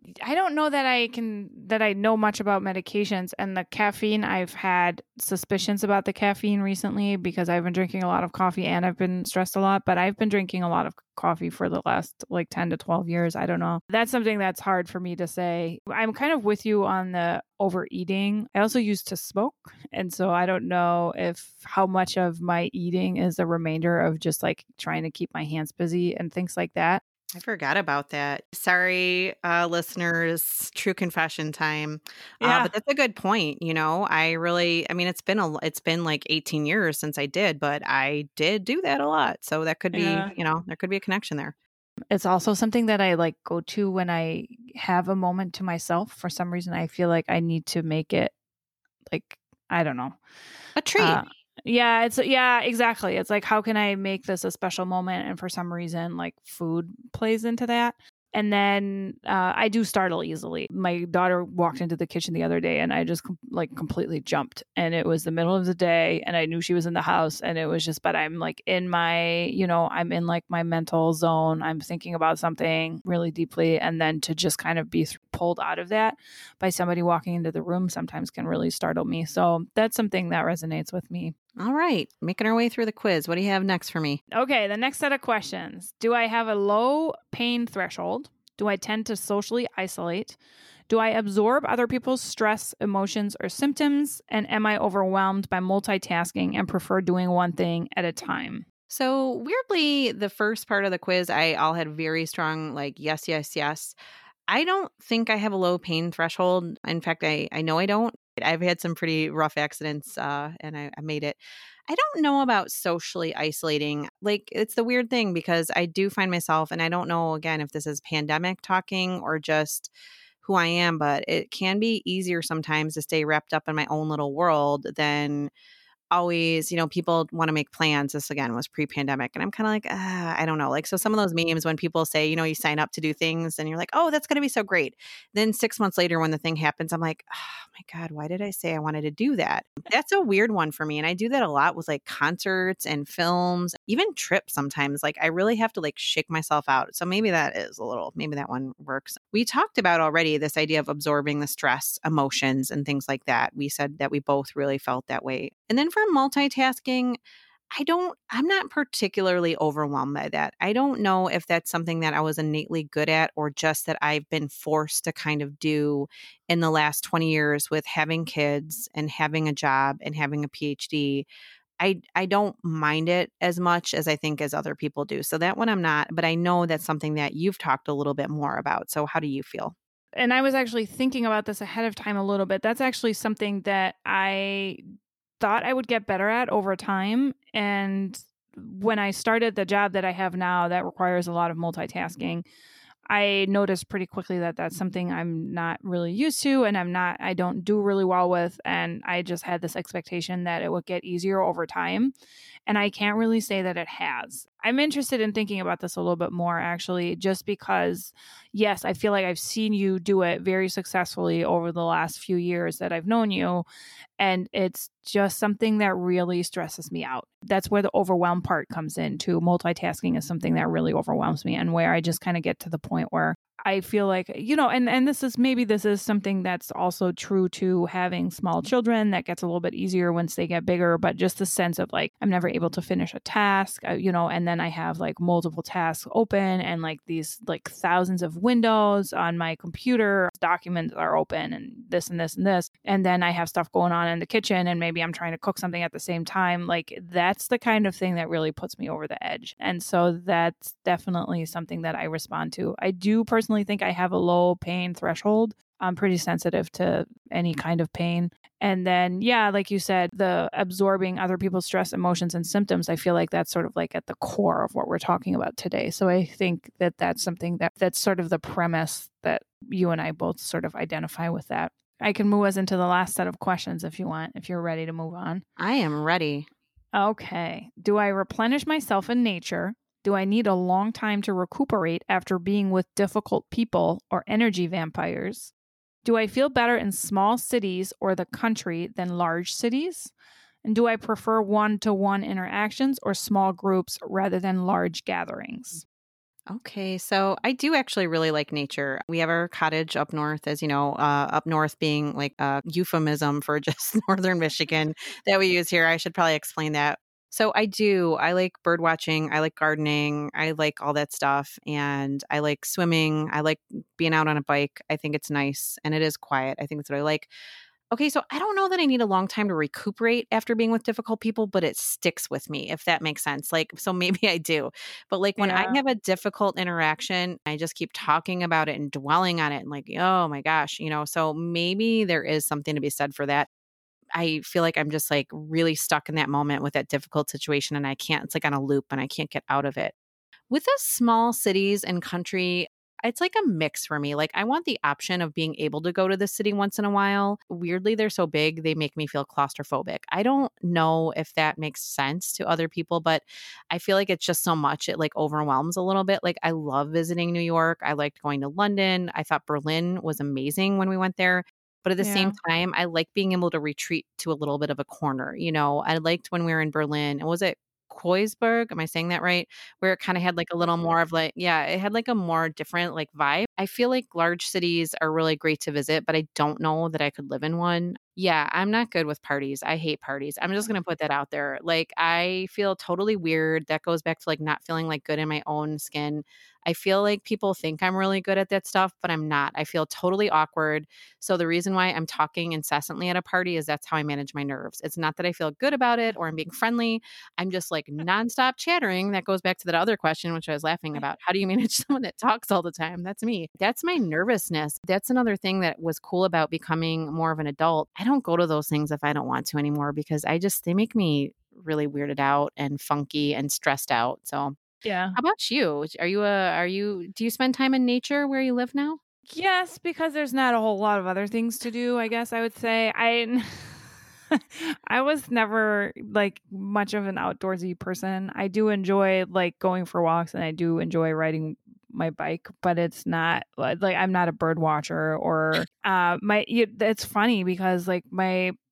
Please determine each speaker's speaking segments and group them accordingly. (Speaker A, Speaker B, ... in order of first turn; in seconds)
Speaker A: 0.2-27.0, 32.4-32.7, 39.9-40.3, 42.1-48.3, 49.1-50.2, 51.0-81.3, 84.3-90.4, 90.9-98.7, 180.2-184.8, 185.4-192.5, 193.1-202.1, 202.7-213.7, 214.2-275.4, 276.9-285.5, 286.0-290.1, 290.6-295.8, 325.4-325.8, 362.0-362.4, 414.8-415.2, 419.3-438.6
Speaker B: 27.3-41.5, 50.8-51.2, 81.6-84.2, 98.9-104.0, 104.5-119.9, 120.4-125.5, 126.1-157.2, 157.7-171.3, 171.8-179.8, 275.6-276.5, 296.5-317.3, 317.9-333.5, 334.1-339.9, 340.5-414.6, 415.2-419.0